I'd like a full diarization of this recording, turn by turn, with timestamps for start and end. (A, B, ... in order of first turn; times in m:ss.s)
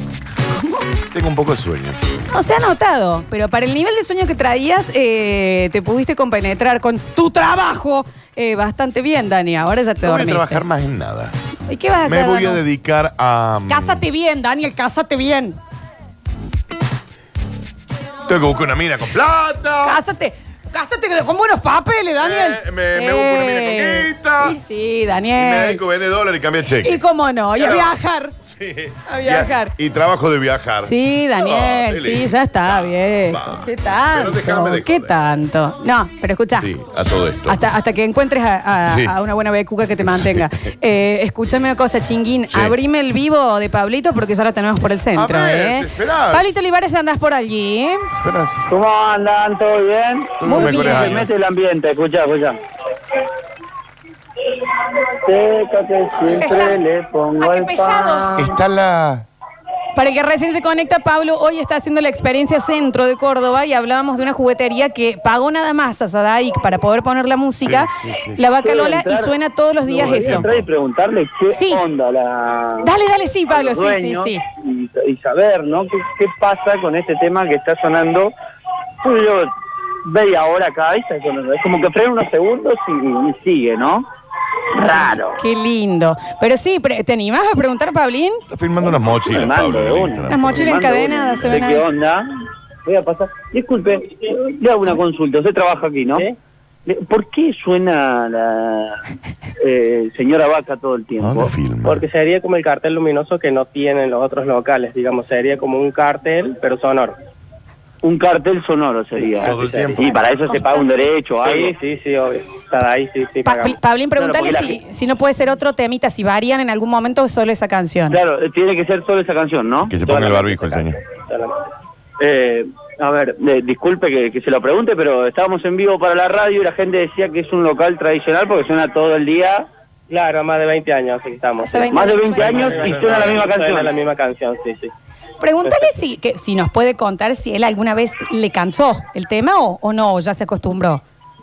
0:01.1-0:02.2 A
0:02.3-0:10.6 B
0:10.0-0:11.4 A
0:11.7-0:12.6 B
0:12.0-0:14.0 A
0:13.7-0:15.6 B
0:18.2-0:20.0 A
0:19.8-0:25.8 B
0:22.2-0:24.6 A
0:25.4-0:27.0 A
0:26.8-0:28.3 B
0:27.5-0:35.1 A
0:29.1-0:29.7 B
0:30.8-0:36.7 B
0:36.6-0:37.6 A
0:37.4-0:48.1 B
0:38.9-0:39.1 A
0:40.0-0:40.5 A
0:42.5-0:42.8 A
0:45.1-0:46.5 A
0:48.1-0:48.7 A
0:48.7-0:52.6 C
0:50.4-0:51.3 A
0:50.4-0:51.2 B
0:55.2-0:58.6 C
0:56.2-0:56.8 B
0:57.4-0:58.4 B
0:58.4-0:59.2 A
0:59.9-1:10.5 B
1:07.6-1:08.4 A
1:08.6-1:09.3 C
1:09.8-1:12.9 C
1:10.0-1:10.7 A
1:11.5-1:11.8 B
1:12.8-1:14.4 B
1:13.5-1:18.3 C
1:19.0-1:19.5 C
1:20.0-1:24.1 C
1:24.7-1:25.4 C
1:25.3-1:28.4 B
1:28.5-1:30.8 A
1:28.9-1:32.3 C
1:30.3-1:31.8 B
1:32.8-1:36.3 C
1:36.8-1:39.0 C
1:39.6-1:41.5 C
1:41.2-1:42.0 A
1:41.8-1:47.2 D
1:48.0-1:51.7 C
1:49.4-1:50.2 A
1:49.6-1:49.9 D
1:51.4-1:53.8 D
1:53.4-1:58.2 B
1:54.2-1:54.8 C
1:58.1-2:00.7 C
1:59.9-2:01.0 A
2:01.3-2:01.6 D
2:02.2-2:09.7 C
2:10.1-2:14.9 D
2:11.6-2:12.7 B
2:11.9-2:13.9 C
2:12.4-2:13.5 A
2:15.4-2:21.0 B
2:15.6-2:15.9 D